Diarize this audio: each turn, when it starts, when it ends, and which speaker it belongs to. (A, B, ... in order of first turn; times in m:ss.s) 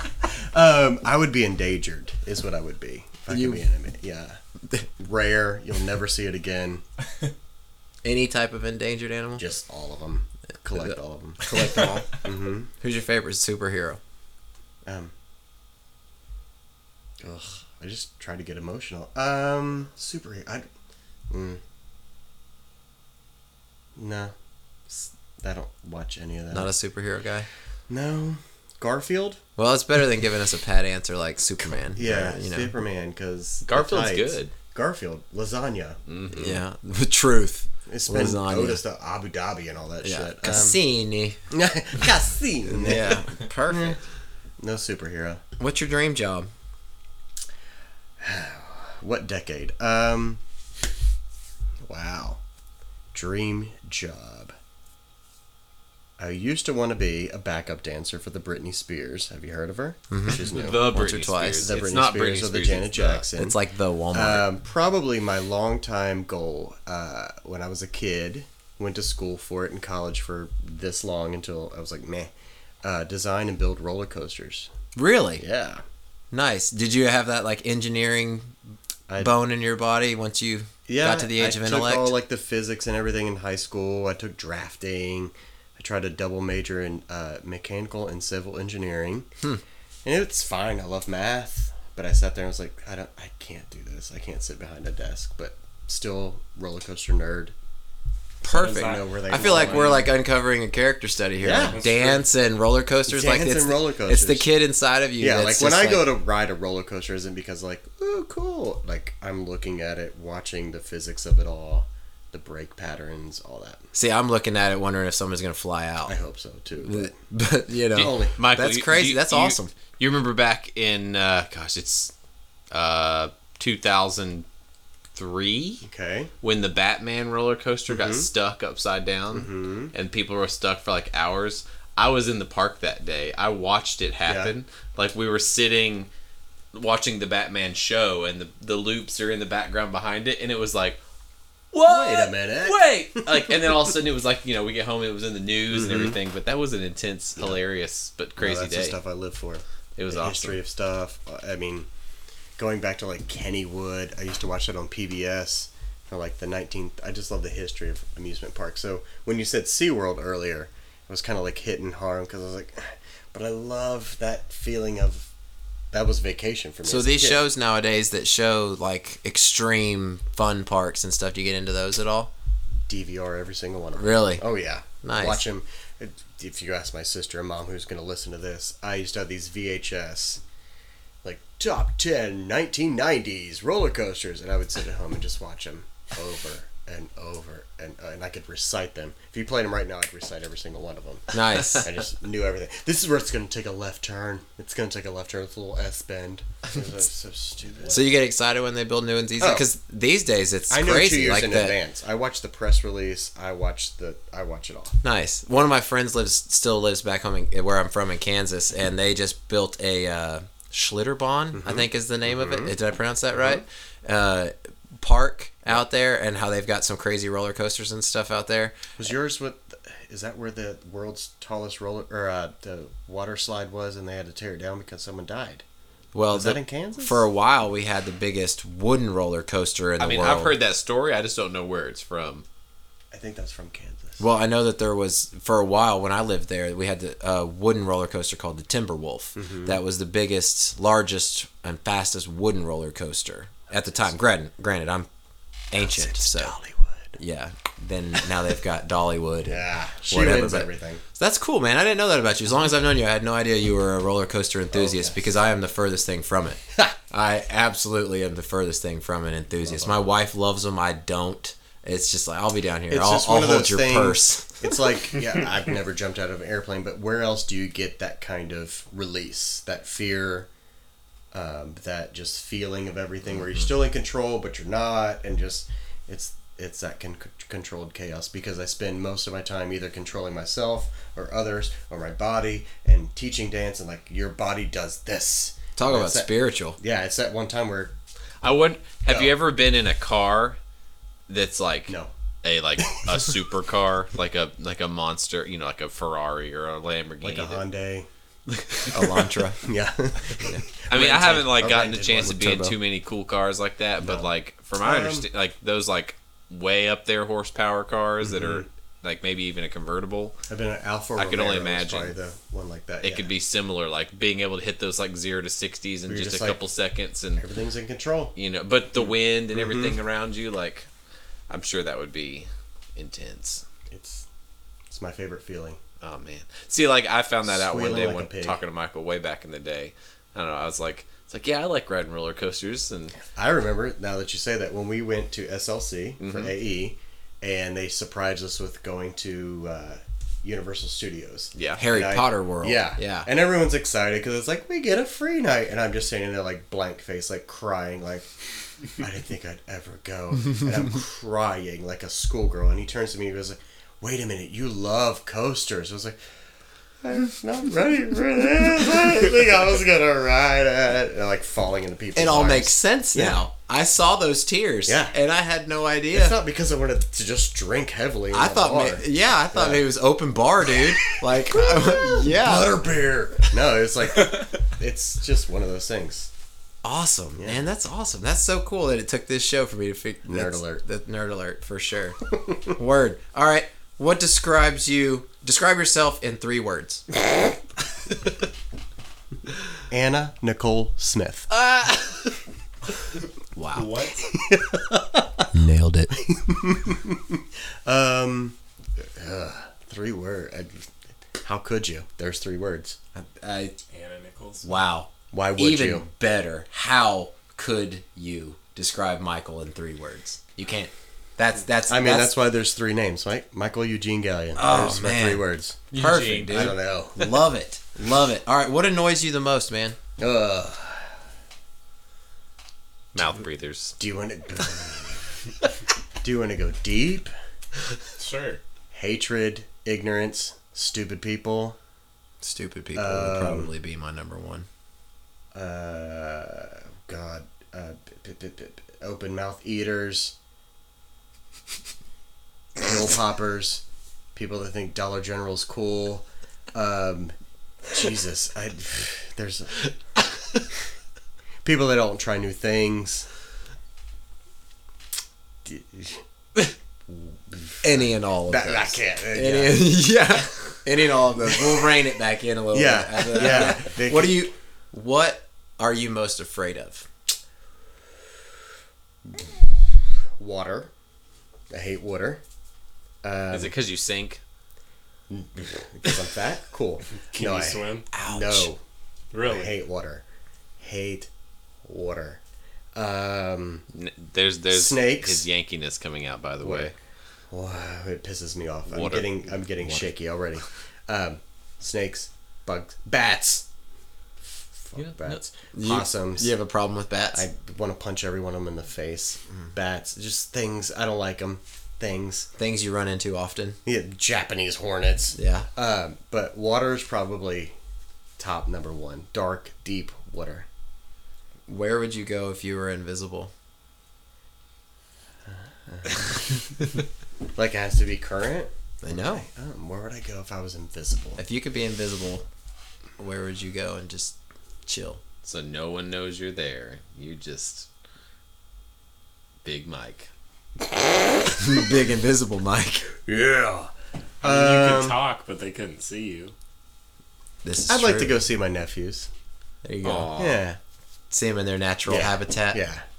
0:00.2-0:04.4 A
0:03.3-0:03.6 B
0:05.0-0:06.8 A
0:08.0-0:09.4 B
0:09.4-0:11.4 A
0:10.8-0:12.2 B
0:12.2-0:12.7 A
0:12.8-0:14.0 B
0:14.9-0:15.1 A
0:17.2-0:20.7 A
0:21.3-0:21.6 A
0:24.0-0:24.3 A
0:24.9-0:26.7 A
0:26.5-0:27.5 B
0:27.9-0:29.4 A
0:29.6-0:32.7 B
0:31.9-0:36.0 A
0:33.7-0:34.5 C
0:36.1-0:36.6 C
0:36.3-0:38.8 B
0:37.9-0:40.8 A
0:40.0-0:41.4 B
0:41.5-0:44.0 A
0:42.7-0:44.0 B
0:44.6-0:45.4 A
0:45.6-0:46.5 B
0:48.2-0:50.4 A
0:51.9-0:52.4 A
0:53.1-0:54.6 A
0:56.2-1:01.0 A
1:00.1-1:01.7 B
1:00.5-1:03.2 C
1:01.6-1:03.6 A
1:03.4-1:04.5 B
1:04.1-1:12.3 A
1:12.8-1:14.7 A
1:15.0-1:15.4 B
1:15.4-1:15.8 A
1:16.3-1:18.6 B
1:19.1-1:19.4 A
1:19.2-1:22.1 B
1:20.9-1:29.3 A
1:30.0-1:37.5 A
1:38.4-1:46.1 B
1:38.4-1:40.0 D
1:38.7-1:40.0 A
1:41.4-1:41.8 A
1:41.7-1:42.2 D
1:43.1-1:44.5 A
1:45.2-1:53.9 A
1:53.9-1:56.2 B
1:56.1-1:57.2 A
1:56.8-1:59.7 B
1:58.0-1:58.4 A
1:58.0-2:02.1 C
2:02.7-2:04.5 C
2:05.2-2:05.8 C
2:05.8-2:06.3 A
2:06.4-2:16.1 C
2:07.9-2:08.3 A
2:09.3-2:09.9 A
2:14.2-2:14.5 A
2:16.7-2:21.0 C
2:21.7-2:29.0 C
2:21.8-2:23.5 A
2:25.7-2:26.2 A
2:27.4-2:27.6 A
2:28.4-2:31.9 A
2:30.0-2:30.6 C
2:32.6-2:45.3 A
2:45.9-2:47.4 A
2:46.8-2:52.3 B
2:52.9-3:00.4 A
2:54.0-2:54.4 B
2:55.0-2:55.4 B
3:01.2-3:18.0 A
3:11.3-3:11.9 B
3:17.9-3:21.8 B
3:19.4-3:19.7 A
3:20.7-3:25.0 A
3:25.0-3:38.8 B
3:31.5-3:32.7 A
3:33.4-3:33.6 A
3:39.0-3:45.6 A
3:46.1-3:50.5 B
3:46.3-3:47.2 A
3:50.0-3:52.4 C
3:53.1-3:54.3 A
3:54.2-4:05.1 B
3:59.4-3:59.8 A
4:03.7-4:04.1 A
4:05.7-4:06.5 B
4:05.8-4:07.2 A
4:07.2-4:24.5 B
4:09.5-4:11.0 A
4:14.7-4:15.2 A
4:19.6-4:20.0 A
4:22.9-4:30.5 A
4:31.3-4:47.9 A
4:45.8-4:46.8 B
4:48.4-4:50.6 C
4:49.1-4:49.4 A
4:51.3-4:57.6 C
4:51.9-4:52.1 A
4:53.0-4:53.3 A
4:57.2-4:58.1 A
4:58.5-4:59.2 C
4:58.9-4:59.6 B
4:59.6-5:02.8 A
5:00.9-5:10.4 C
5:04.0-5:04.3 A
5:04.8-5:05.3 A
5:08.2-5:08.6 A
5:10.5-5:13.3 A
5:11.2-5:12.1 C
5:13.0-5:17.4 C
5:16.1-5:16.6 A
5:17.4-5:18.4 A
5:18.4-5:20.9 C
5:19.5-5:20.0 A
5:21.5-5:23.6 C
5:23.9-5:24.2 A
5:24.9-5:25.8 A
5:26.0-5:33.2 C
5:27.5-5:28.6 A
5:33.3-5:48.3 A
5:36.2-5:36.5 C
5:41.6-5:41.8 C
5:41.8-5:43.3 B
5:48.9-5:56.2 A
5:57.0-6:03.4 A
6:02.1-6:06.4 B
6:04.9-6:05.2 A
6:06.1-6:09.8 A
6:08.3-6:12.8 B
6:11.3-6:16.3 A
6:16.8-6:27.1 B
6:20.3-6:20.8 A
6:29.9-6:31.5 A
6:31.7-6:32.1 C
6:33.6-6:34.1 B
6:33.7-6:34.2 D
6:34.3-6:35.5 A
6:35.5-6:36.1 B
6:36.1-6:40.9 A
6:41.4-6:43.0 A
6:43.1-6:43.8 B
6:43.9-6:44.7 D
6:44.6-6:52.3 B
6:45.3-6:46.1 A
6:51.9-6:55.8 A
6:54.6-7:00.0 B
6:55.9-6:56.6 C
6:56.5-6:57.4 A
7:00.2-7:01.1 A
7:03.1-7:04.0 C
7:04.0-7:05.2 A
7:06.2-7:07.3 A
7:08.2-7:08.6 D
7:08.9-7:11.8 A
7:12.4-7:14.7 B
7:13.0-7:13.7 A
7:15.5-7:20.4 A
7:22.8-7:23.8 A
7:24.4-7:27.3 A
7:27.9-7:29.9 A
7:31.6-7:33.3 A
7:35.6-7:36.2 A
7:37.1-7:40.0 A
7:37.8-7:47.1 B
7:41.5-7:41.8 A
7:42.7-7:44.5 A
7:50.4-7:50.9 A
7:51.7-7:52.4 A
7:53.2-7:53.7 A
7:53.5-7:54.4 C
7:55.3-7:58.8 A
7:57.3-7:58.1 D
7:58.1-7:58.7 B
7:59.3-7:59.8 D
7:59.4-8:00.2 A
8:00.8-8:01.3 A
8:01.9-8:02.4 A
8:03.0-8:03.9 A
8:03.9-8:06.9 C
8:04.7-8:05.5 A
8:06.6-8:06.9 A
8:07.5-8:13.6 A
8:08.9-8:09.6 C
8:14.9-8:16.5 A
8:15.0-8:15.4 C
8:15.7-8:17.4 B
8:17.3-8:22.5 A
8:22.6-8:23.8 B
8:23.8-8:27.8 A
8:25.4-8:25.7 B
8:28.4-8:30.7 A
8:31.7-8:33.5 B
8:35.5-8:36.4 A
8:37.6-8:41.4 A
8:39.0-8:39.5 B
8:41.4-8:42.4 B
8:43.2-8:45.2 B
8:45.4-8:47.9 C
8:49.6-8:50.3 C
8:51.5-8:53.1 B
8:53.2-8:55.2 A
8:54.4-8:56.5 D
8:57.6-8:58.4 B
8:57.9-8:59.3 A
8:59.8-9:00.4 B
9:00.0-9:00.6 C
9:00.4-9:00.8 A
9:01.3-9:02.8 B
9:02.1-9:03.0 A